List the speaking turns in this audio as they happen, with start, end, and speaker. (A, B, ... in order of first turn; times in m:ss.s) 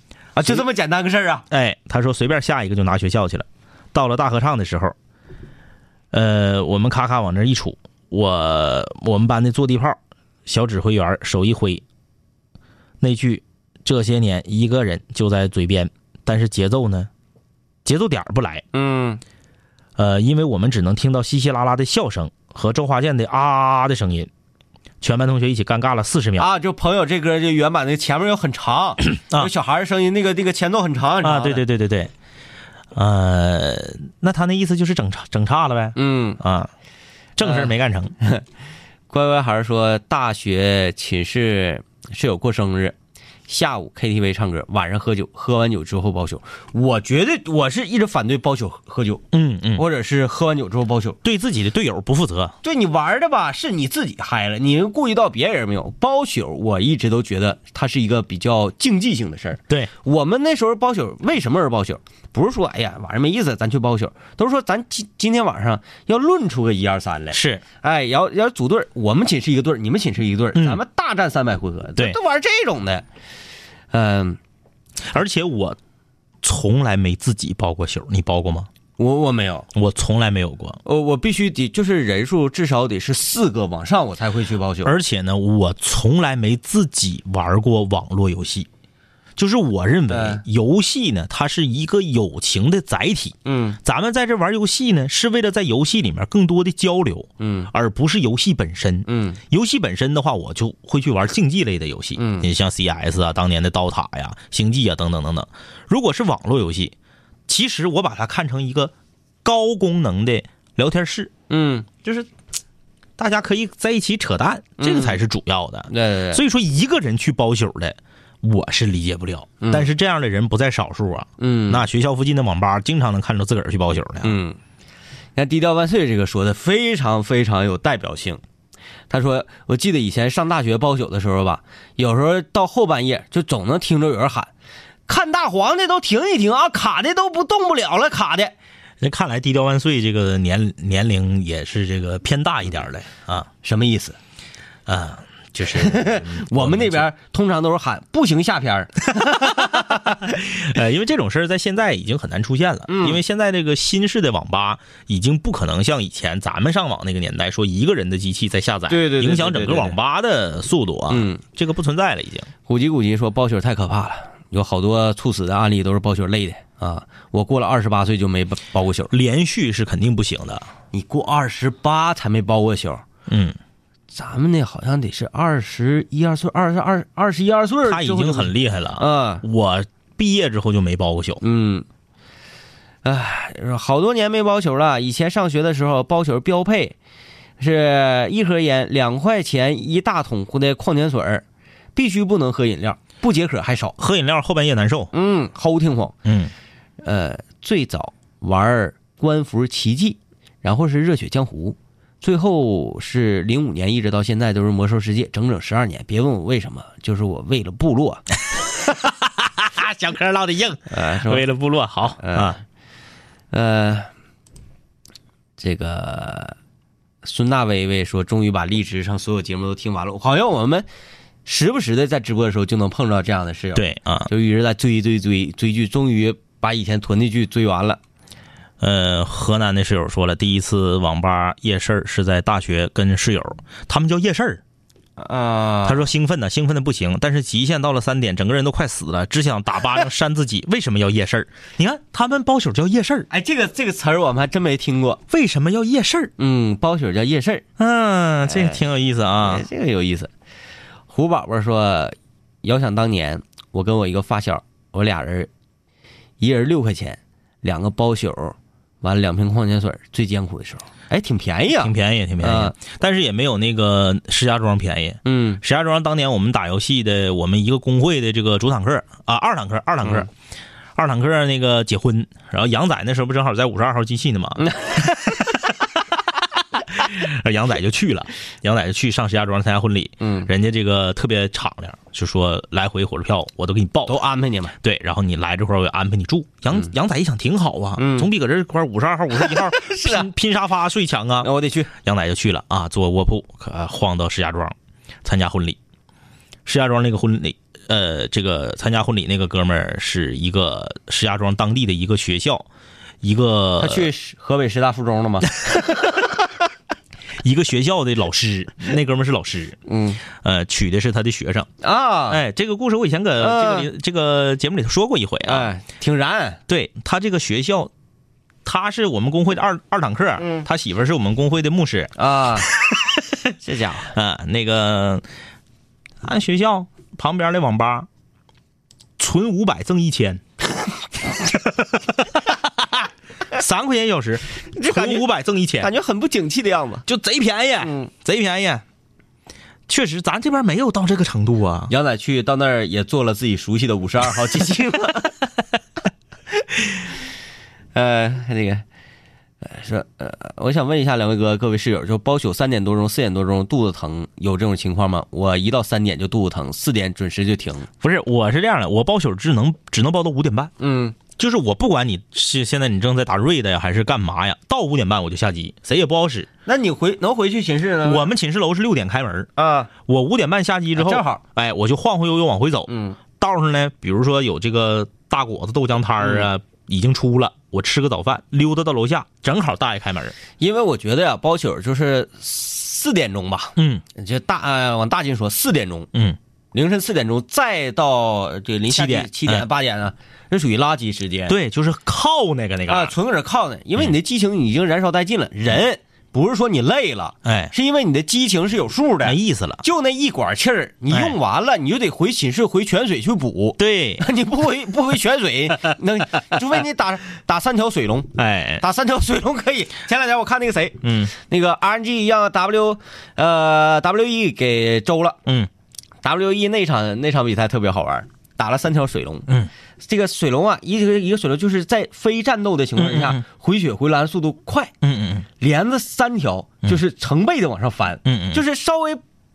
0:00.4-0:01.5 A
0:01.5-0:05.0 B
0:06.1-0:11.8 B
0:13.0-0:17.1 B
0:17.8-0:18.6 B
0:18.7-0:19.2 A
0:20.0-0:24.3 B
0:25.0-0:26.5 B
0:26.4-0:31.6 A
0:29.2-0:29.5 B
0:31.2-0:32.1 B
0:32.9-0:36.7 B
0:36.0-0:36.4 A
0:37.4-0:38.1 B
0:37.4-0:38.4 A
0:39.1-0:43.0 A
0:43.5-0:49.2 A
0:49.3-0:49.8 B
0:49.8-0:51.2 A
0:51.2-0:52.6 B
0:52.6-1:13.0 A
1:07.3-1:07.6 B
1:10.6-1:10.8 B
1:13.9-1:14.4 A
1:15.1-1:15.8 B
1:16.4-1:18.7 B
1:19.0-1:19.7 A
1:19.7-1:20.8 B
1:20.8-1:24.9 A
1:24.8-1:28.7 B
1:29.4-1:47.0 B
1:30.1-1:30.4 A
1:33.4-1:33.8 A
1:37.4-1:37.7 A
1:39.1-1:39.4 A
1:42.2-1:42.5 A
1:47.5-1:48.9 B
1:49.4-1:51.3 B
1:51.5-1:51.9 A
1:53.2-2:04.4 B
1:54.8-1:55.2 A
1:55.9-1:56.4 A
1:59.6-1:59.9 A
2:01.4-2:01.8 A
2:04.2-2:04.6 A
2:05.4-2:08.4 A
2:09.1-2:14.5 A
2:15.1-2:18.6 A
2:19.0-2:23.5 B
2:23.6-2:24.2 A
2:24.9-2:27.1 B
2:25.8-2:30.2 A
2:29.2-2:42.5 B
2:32.9-2:33.2 A
2:38.9-2:40.0 A
2:41.1-2:41.4 A
2:42.7-2:49.1 A
2:49.1-2:50.7 B
2:50.9-2:53.0 A
2:53.3-2:53.6 B
2:54.1-2:59.4 A
2:57.9-3:01.4 B
3:01.4-3:01.9 A
3:03.0-3:07.0 A
3:07.6-3:11.4 A
3:12.0-3:14.0 A
3:14.0-3:15.1 B
3:15.1-3:16.2 A
3:16.2-3:16.5 B
3:17.0-3:28.2 A
3:28.8-3:32.6 B
3:30.9-3:31.5 A
3:32.2-3:32.6 A
3:33.5-3:34.1 A
3:35.6-3:36.6 A
3:37.2-3:40.9 A
3:41.5-3:48.0 A
3:43.7-3:44.3 B
3:48.8-3:54.6 B
3:55.2-3:56.1 A
3:55.8-4:03.3 B
4:03.3-4:05.2 A
4:05.3-4:06.3 B
4:06.4-4:07.6 A
4:07.8-4:09.6 B
4:08.5-4:08.8 A
4:09.4-4:10.3 A
4:11.1-4:15.5 A
4:16.4-4:22.8 A
4:21.8-4:30.3 B
4:25.2-4:25.6 A
4:31.0-4:35.8 B
4:34.6-4:34.9 A
4:36.8-4:44.2 B
4:40.2-4:40.5 A
4:44.1-4:44.8 A
4:44.8-4:55.8 B
4:48.0-4:48.3 A
4:49.4-4:50.3 A
4:51.4-4:51.9 A
4:56.7-5:02.7 B
5:03.2-5:04.1 B
5:03.8-5:06.0 A
5:07.4-5:11.7 B
5:09.9-5:10.2 A
5:11.8-5:12.4 A
5:12.3-5:15.7 B
5:13.4-5:13.9 A
5:15.4-5:16.6 A
5:16.7-5:17.9 B
5:18.6-5:23.1 B
5:20.4-5:20.6 A
5:22.2-5:22.7 A
5:23.6-5:24.1 A
5:24.1-5:25.2 B
5:26.2-5:28.1 B
5:29.2-5:30.4 B
5:31.5-5:35.9 B
5:34.7-5:35.3 A
5:35.8-5:37.0 A
5:37.1-5:38.8 B
5:37.8-5:38.1 A
5:39.9-5:41.9 B
5:41.9-5:45.4 A
5:48.0-5:48.8 A
5:49.6-5:57.9 A
5:58.0-6:00.7 B
6:00.8-6:01.2 A
6:01.3-6:06.5 B
6:06.7-6:08.3 A
6:08.0-6:09.5 B
6:09.6-6:09.9 A
6:10.0-6:20.4 B
6:11.0-6:11.4 A
6:12.9-6:13.2 A
6:16.2-6:16.5 A
6:20.6-6:26.1 A
6:23.8-6:24.0 B
6:26.1-6:26.4 B
6:26.7-6:31.6 A
6:28.9-6:29.7 B
6:31.5-6:33.2 B
6:32.9-6:55.4 A
6:37.4-6:37.7 B
6:39.2-6:39.8 B
6:41.1-6:41.4 B
6:43.8-6:44.2 B
6:48.4-6:48.8 B
6:51.0-6:51.3 B
6:56.2-6:59.5 A
7:00.0-7:04.9 A
7:03.0-7:03.4 B
7:05.0-7:05.5 B
7:05.6-7:09.2 A
7:08.2-7:08.6 B